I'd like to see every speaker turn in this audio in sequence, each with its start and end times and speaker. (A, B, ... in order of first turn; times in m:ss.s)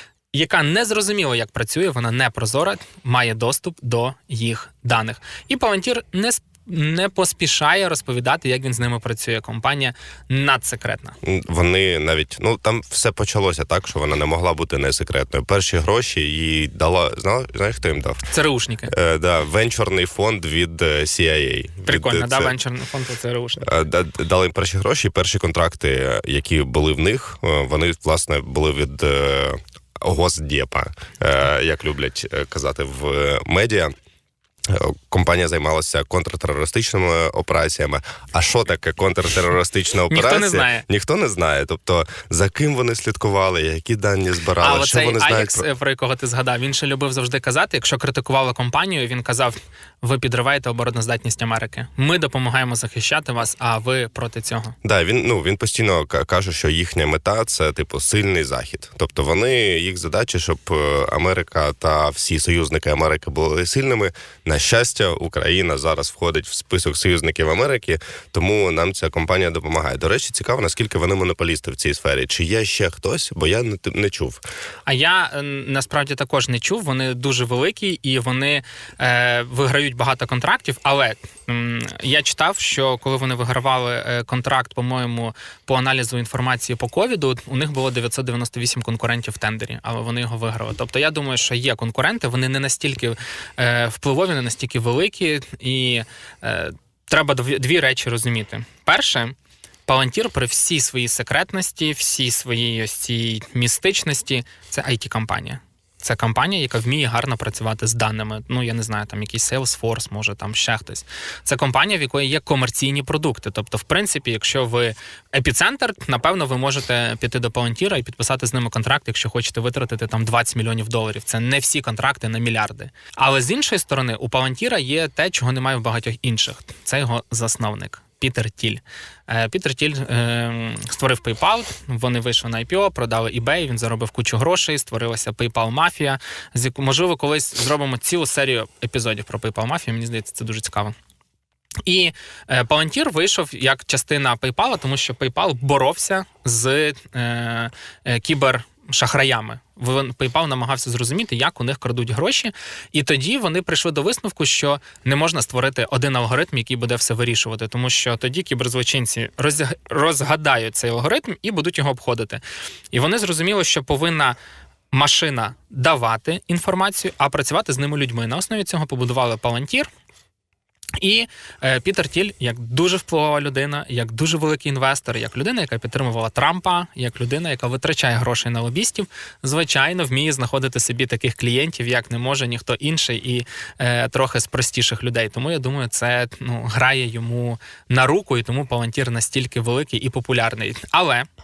0:00.3-0:11.2 A
0:11.2-0:18.2 B
0:18.3-0:18.9 A
0:18.9-0:22.5 B
0:21.8-0:23.7 A
0:23.6-0:33.9 B
0:34.7-0:45.6 B
0:40.1-0:40.8 A
0:44.6-0:54.7 A
0:54.8-1:14.4 B
1:14.8-1:39.3 A
1:39.8-2:20.9 A
2:21.8-2:44.4 A
2:44.9-2:49.9 A
2:51.0-3:11.3 A